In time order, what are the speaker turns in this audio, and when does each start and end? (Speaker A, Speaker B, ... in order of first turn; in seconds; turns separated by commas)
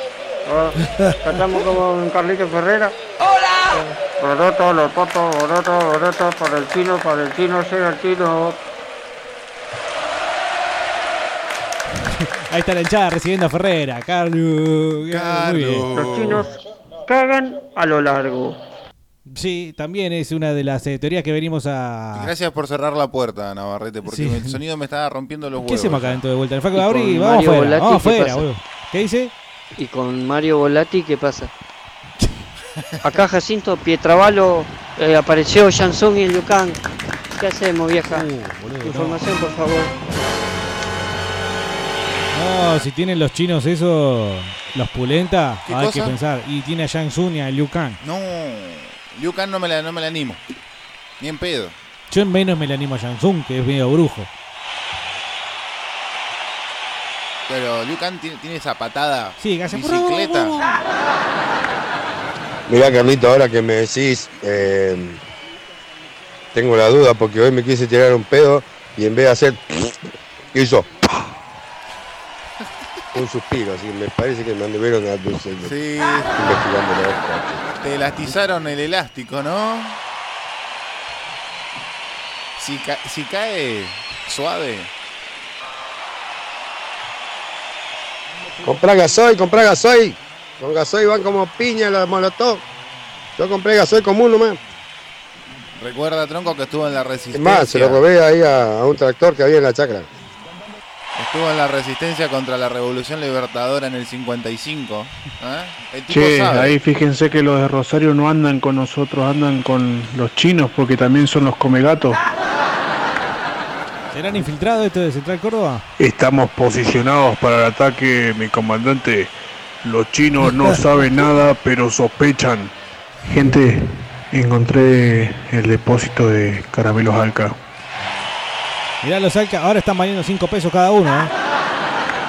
Speaker A: 0.5-2.9, Speaker A: 3.7-8.6, Speaker B: 12.5-15.9, Speaker C: 15.1-16.4, Speaker A: 15.9-16.5, Speaker A: 17.1-18.6, Speaker B: 19.3-22.3, Speaker C: 22.1-26.2, Speaker B: 24.0-24.6, Speaker B: 25.6-29.3, Speaker D: 27.2-28.4, Speaker D: 29.8-31.5, Speaker D: 33.0-36.8, Speaker D: 37.4-38.2, Speaker B: 38.0-39.2, Speaker D: 39.0-39.4, Speaker B: 42.3-48.0, Speaker C: 45.6-46.1, Speaker C: 48.0-50.4, Speaker C: 51.2-51.7, Speaker B: 52.1-54.3, Speaker C: 57.5-60.6, Speaker B: 59.4-60.7, Speaker E: 62.7-65.2, Speaker E: 66.5-69.9, Speaker E: 70.5-70.9, Speaker E: 73.1-75.7, Speaker C: 75.6-76.4, Speaker E: 76.4-77.7, Speaker C: 77.8-80.0, Speaker C: 82.6-84.9, Speaker E: 88.6-92.6, Speaker E: 93.4-94.6, Speaker C: 95.8-98.0, Speaker E: 97.3-100.1, Speaker C: 101.2-106.8, Speaker F: 106.1-112.2, Speaker B: 114.1-115.8, Speaker F: 116.0-122.7, Speaker F: 123.3-127.6, Speaker B: 129.0-131.3